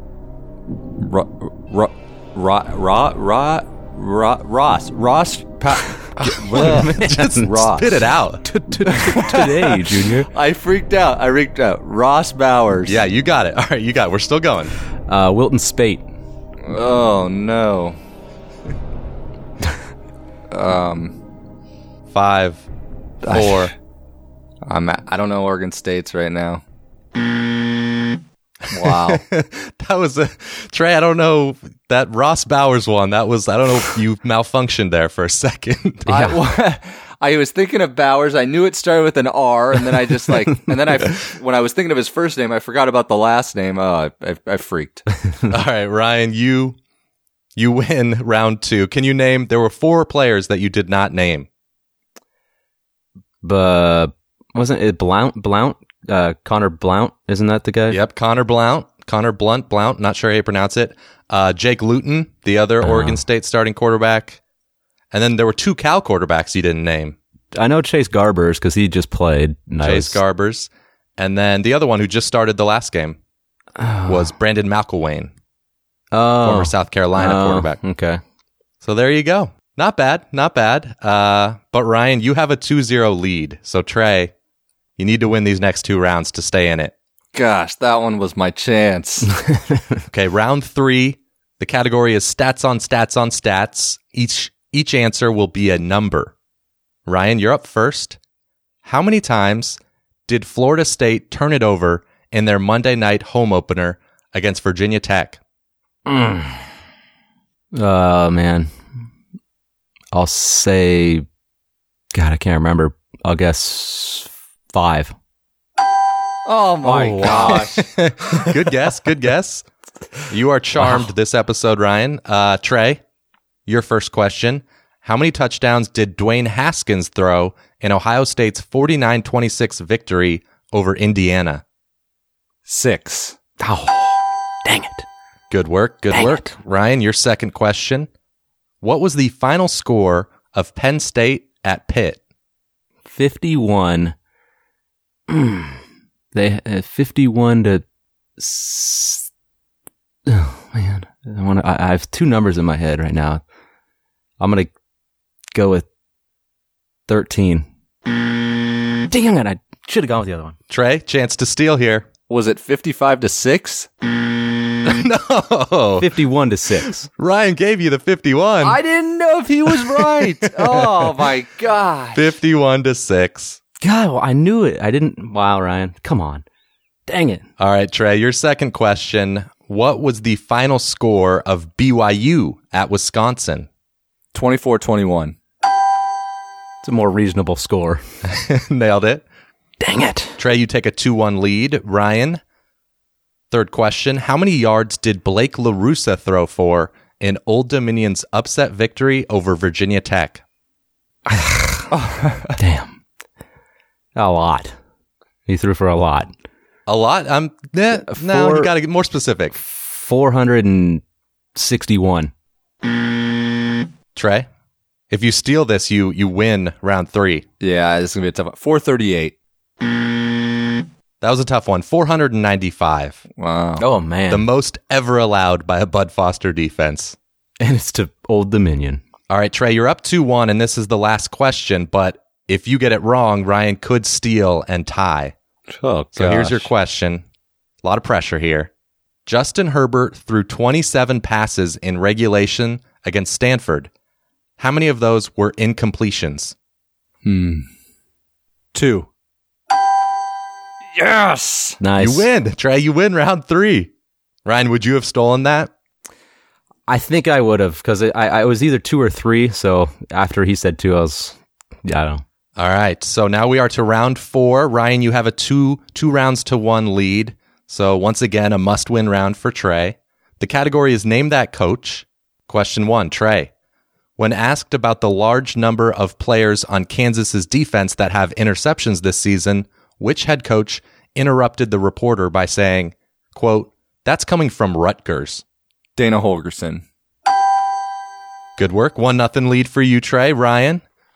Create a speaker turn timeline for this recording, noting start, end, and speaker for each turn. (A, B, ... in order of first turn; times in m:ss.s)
0:01.0-0:06.9 A
0:06.2-0:10.3 B
0:06.5-0:08.4 C
0:08.9-0:13.1 A
0:12.8-0:14.7 C
0:15.1-0:16.0 B
0:16.6-0:18.0 A
0:20.5-0:21.2 A
0:22.1-0:22.6 C
0:23.2-0:23.7 A
0:23.2-0:23.7 C
0:24.6-0:26.6 A
0:28.7-0:29.2 A
0:28.7-0:36.2 C
0:36.0-0:45.0 A
0:36.1-0:36.3 B
0:45.5-0:46.8 C
0:47.6-0:51.5 C
0:53.4-0:58.0 B
0:57.9-1:04.4 C
1:02.8-1:03.2 B
1:05.1-1:07.2 C
1:07.5-1:10.2 B
1:09.8-1:13.2 C
1:13.8-1:14.3 B
1:14.1-1:15.3 C
1:16.1-1:18.2 B
1:16.4-1:17.8 C
1:18.8-1:24.3 C
1:25.0-1:26.9 C
1:27.3-1:29.3 A
1:29.3-1:30.0 B
1:30.1-1:36.3 C
1:37.0-1:38.2 C
1:38.8-1:45.4 C
1:46.0-1:46.6 B
1:47.7-1:48.7 B
1:50.1-1:51.2 B
1:52.1-1:55.1 B
1:56.4-1:57.9 A
1:56.8-1:57.7 B
1:57.2-1:59.6 C
2:00.3-2:03.0 C
2:00.8-2:01.1 B
2:03.6-2:11.6 C
2:12.6-2:13.4 A
2:13.6-2:15.0 B
2:15.5-2:18.1 C
2:16.1-2:16.5 B
2:18.8-2:22.2 C
2:23.1-2:24.1 B
2:25.3-2:25.8 B
2:26.3-2:27.8 B
2:28.4-2:29.2 B
2:30.3-2:33.4 B
2:34.4-2:34.7 B
2:35.5-2:35.8 B
2:37.1-2:37.7 B
2:39.1-2:40.6 B
2:40.7-2:42.1 C
2:42.3-2:43.9 A
2:44.8-2:46.1 C
2:46.0-2:47.0 B
2:47.0-2:48.8 C
2:48.6-2:52.4 A
2:49.8-2:51.0 C
2:52.1-2:53.6 C
2:53.8-2:56.4 B
2:57.1-2:57.4 B
2:57.6-3:03.7 C
3:04.3-3:05.4 A
3:06.8-3:08.0 B
3:08.2-3:09.2 C
3:09.8-3:10.4 B
3:10.4-3:12.4 C
3:13.5-3:20.4 C
3:21.3-3:21.8 B
3:21.9-3:22.6 A
3:22.6-3:23.0 B
3:24.2-3:24.8 B
3:25.5-3:26.3 B
3:26.9-3:29.6 C
3:28.0-3:28.7 B
3:29.6-3:31.0 B
3:31.5-3:32.3 B
3:34.1-3:34.5 C
3:35.1-3:37.4 C
3:37.6-3:39.4 A
3:41.2-3:43.2 C
3:43.4-3:43.8 A
3:43.8-3:44.4 B
3:44.3-3:47.2 C
3:47.6-3:49.0 B
3:49.3-3:55.3 C
3:55.7-3:56.7 A
3:56.1-3:57.2 C
3:57.8-3:58.7 C
3:59.2-4:03.9 C
4:04.6-4:06.5 C
4:07.2-4:07.7 A
4:08.7-4:09.1 A
4:10.9-4:11.8 A
4:11.8-4:12.3 B
4:12.0-4:13.9 C
4:14.4-4:15.7 C
4:16.9-4:22.2 B
4:22.6-4:33.5 C
4:34.2-4:45.4 C
4:46.0-4:46.8 A
4:48.6-4:50.8 C